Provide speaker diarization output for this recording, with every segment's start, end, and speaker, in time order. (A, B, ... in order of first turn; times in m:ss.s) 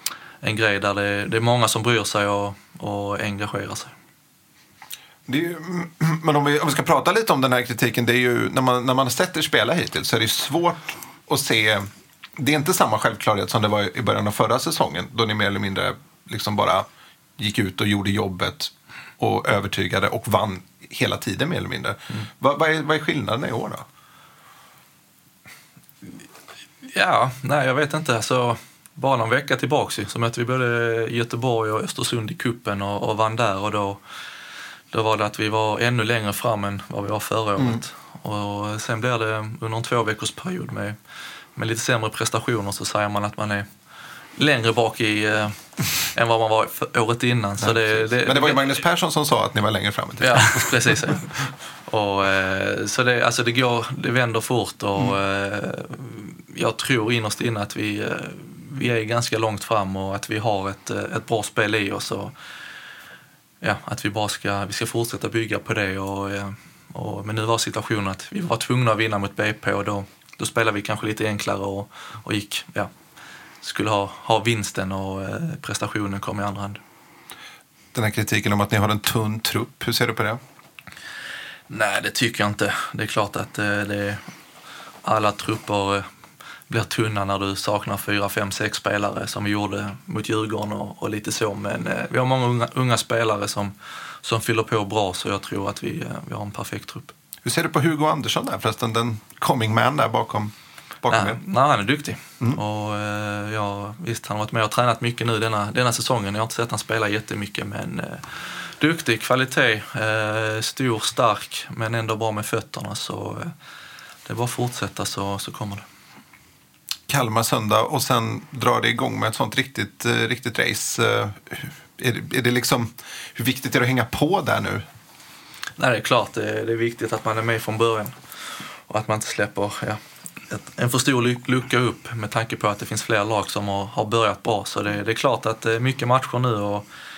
0:00.4-0:03.9 A
0:05.3-0:16.9 B
0:17.4-0:23.8 B
0:26.8-0:34.0 A
0:34.9-0:41.0 A
0:37.6-0:37.8 B
0:41.5-0:43.7 A
0:44.4-0:48.8 A
0:47.6-0:51.3 B
0:50.2-0:51.3 A
0:51.8-1:02.3 A
1:03.6-1:12.9 A
1:13.6-1:16.8 A
1:17.9-1:20.4 B
1:21.7-1:24.2 A
1:25.0-1:26.0 A
1:26.7-1:37.1 A
1:37.4-1:41.4 B
1:41.1-1:53.5 A
1:54.2-1:55.8 A
1:57.1-2:04.8 B
2:05.8-2:16.8 A